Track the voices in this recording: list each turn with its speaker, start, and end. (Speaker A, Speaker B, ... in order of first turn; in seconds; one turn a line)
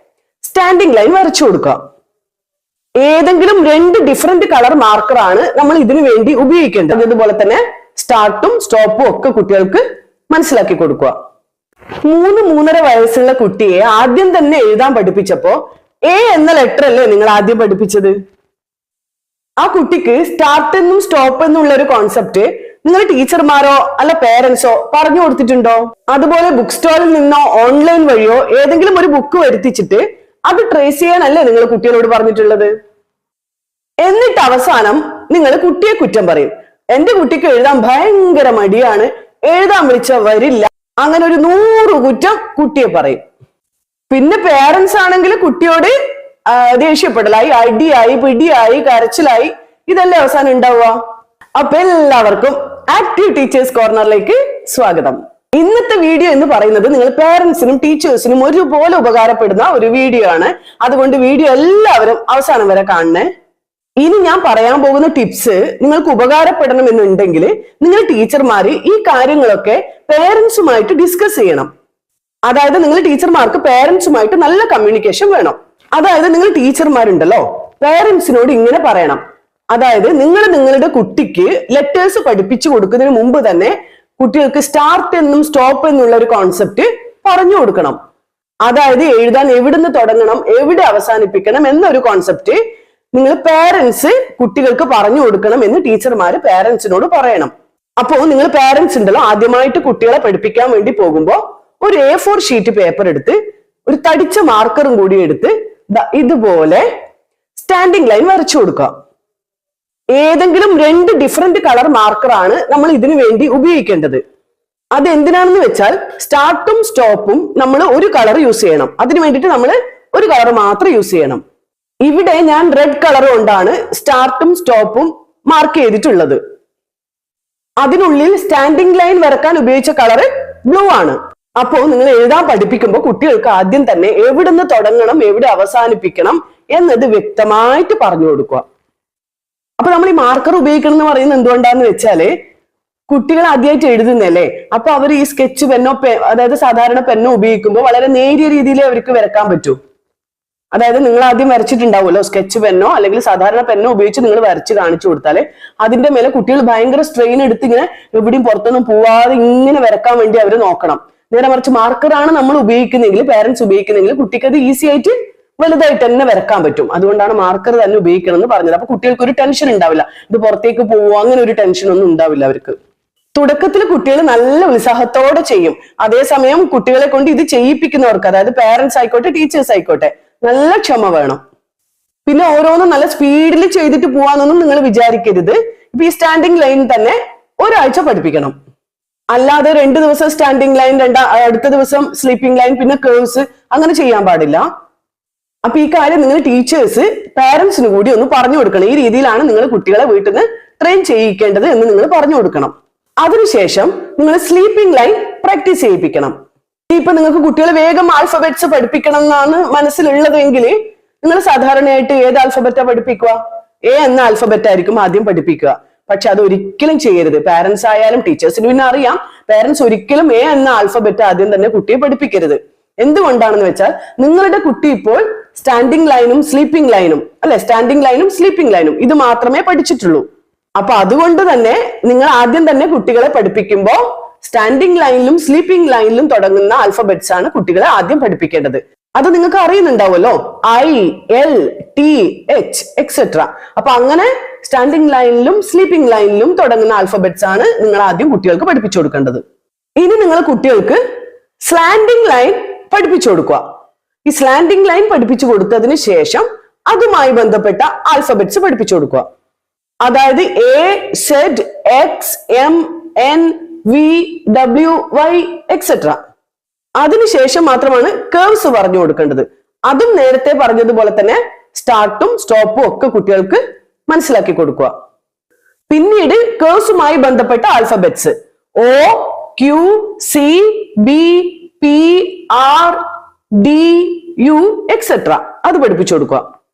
Speaker A: 0.4-1.8
Speaker A: 3.0-11.1
Speaker A: 12.0-18.1
Speaker A: 19.6-32.7
Speaker A: 34.0-43.2
Speaker A: 44.1-45.9
Speaker A: 46.5-51.0
Speaker A: 51.5-63.3
Speaker A: 64.0-71.7
Speaker A: 72.5-88.0
Speaker A: 88.7-92.6
Speaker A: 93.1-106.8
Speaker A: 107.5-108.9
Speaker A: 110.1-114.2
Speaker A: 114.9-121.4
Speaker A: 122.0-126.4
Speaker A: 127.8-138.7
Speaker A: 139.8-142.3
Speaker A: 143.1-149.8
Speaker A: 150.7-172.8
Speaker A: 173.3-181.4
Speaker A: 182.2-188.5
Speaker A: 189.3-194.7
Speaker A: 195.6-206.3
Speaker A: 206.9-230.2
Speaker A: 230.8-249.4
Speaker A: 250.0-251.0
Speaker A: 251.7-253.6
Speaker A: 254.2-259.2
Speaker A: 260.0-266.2
Speaker A: 267.0-274.9
Speaker A: 275.9-283.0
Speaker A: 283.6-286.4